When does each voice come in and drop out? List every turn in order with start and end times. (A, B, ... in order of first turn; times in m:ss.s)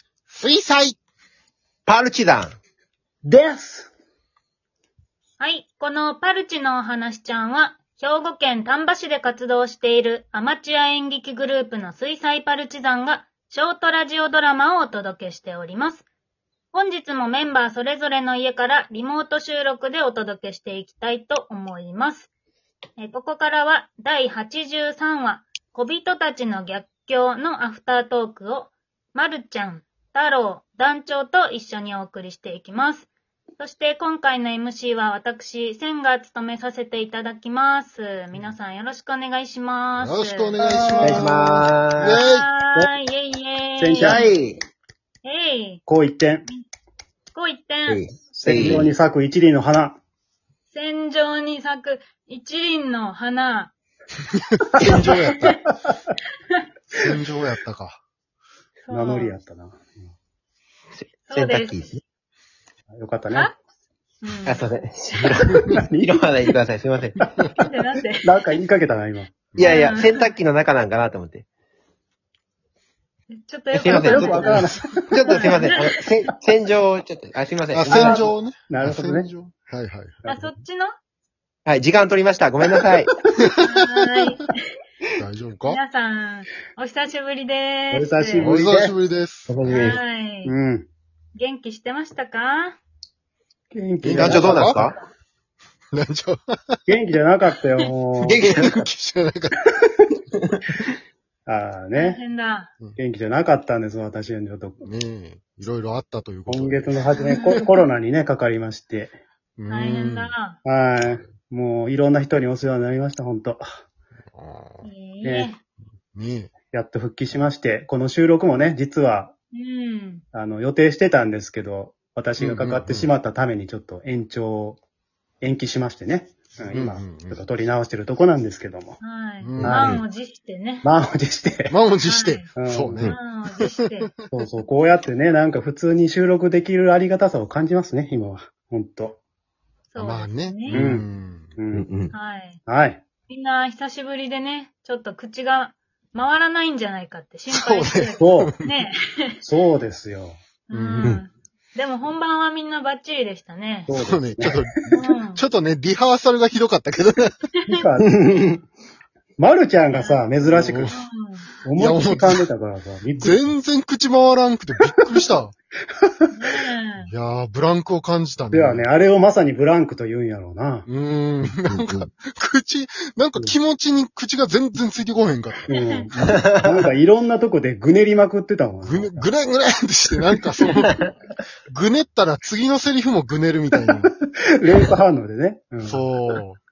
0:00.3-0:01.0 A
0:01.9-0:02.6 B
0:03.2-0:03.9 C
0:05.4-0:16.1 D
0:16.7-0:22.3 D
0:23.0-0:41.0 D
0:40.0-0:42.5 A
0:40.6-0:42.2 B
0:42.2-0:44.3 D
0:43.8-0:44.3 C
0:44.0-0:44.6 B
0:45.2-0:45.8 D
0:45.9-0:46.5 C
0:47.3-0:48.0 D
0:47.9-0:48.9 B
0:48.3-0:50.0 C
0:50.7-0:53.7 D
0:54.6-0:55.6 A
0:56.9-0:58.0 A
0:58.9-0:59.4 D
0:58.9-0:59.9 C
1:01.0-1:02.0 B
1:01.3-1:01.9 D
1:02.9-1:03.5 C
1:04.2-1:04.7 D
1:04.5-1:07.2 B
1:05.7-1:06.0 C
1:07.6-1:08.4 D
1:08.2-1:09.6 C
1:09.6-1:11.5 B
1:09.6-1:10.3 D
1:13.3-1:14.6 D
1:13.7-1:18.3 B
1:13.9-1:15.6 C
1:15.3-1:15.8 D
1:17.7-1:20.2 A
1:17.8-1:19.3 C
1:20.2-1:20.5 C
1:20.3-1:20.9 D
1:21.7-1:23.1 B
1:23.6-1:24.6 D
1:25.2-1:25.8 A
1:25.7-1:28.4 D
1:27.9-1:28.8 C
1:28.4-1:29.8 A
1:28.6-1:28.9 B
1:29.5-1:30.0 B
1:29.7-1:30.5 D
1:30.4-1:30.9 C
1:31.4-1:32.8 D
1:33.7-1:34.8 C
1:34.0-1:34.9 A
1:34.1-1:35.0 B
1:35.9-1:36.8 A
1:36.9-1:38.4 C
1:38.2-1:38.9 B
1:38.4-1:39.7 A
1:40.4-1:40.8 B
1:41.5-1:42.2 C
1:42.0-1:42.7 D
1:43.0-1:44.8 C
1:44.8-1:47.6 A
1:46.5-1:49.2 C
1:49.6-1:50.3 A
1:49.7-1:50.6 D
1:50.6-1:53.6 C
1:54.3-1:54.9 A
1:54.8-1:55.6 D
1:55.2-1:55.5 C
1:56.1-1:56.5 A
1:56.7-1:59.3 C
1:59.5-2:00.2 D
2:00.3-2:04.8 C
2:02.4-2:03.1 A
2:05.4-2:09.0 C
2:06.7-2:07.5 A
2:09.0-2:10.9 D
2:09.4-2:10.0 A
2:09.6-2:10.0 C
2:10.8-2:11.7 C
2:11.7-2:13.9 A
2:12.0-2:12.5 D
2:12.6-2:13.1 C
2:13.1-2:14.1 D
2:14.3-2:19.2 C
2:19.9-2:20.9 D
2:20.0-2:21.6 A
2:20.7-2:21.0 C
2:21.6-2:21.9 C
2:21.7-2:22.1 B
2:22.1-2:22.6 D
2:22.7-2:23.0 C
2:23.3-2:29.4 D
2:27.5-2:28.7 A
2:28.2-2:28.5 C
2:29.4-2:30.4 C
2:30.7-2:33.9 D
2:30.7-2:31.2 A
2:33.9-2:34.6 C
2:33.9-2:37.4 A
2:34.9-2:35.4 D
2:37.7-2:38.7 C
2:39.4-2:40.9 C
2:39.9-2:40.3 D
2:40.5-2:41.0 A
2:40.9-2:41.5 D
2:41.6-2:43.4 C
2:41.8-2:42.4 A
2:43.2-2:45.5 A
2:46.3-2:47.1 D
2:47.0-2:48.9 A
2:48.5-2:50.9 C
2:50.9-2:56.4 A
2:51.6-2:52.1 B
2:55.7-2:59.3 C
2:55.7-2:56.0 D
2:56.2-2:56.9 B
2:58.8-3:00.9 A
3:00.8-3:01.1 B
3:01.7-3:04.1 A
3:03.9-3:06.0 C
3:05.8-3:06.6 A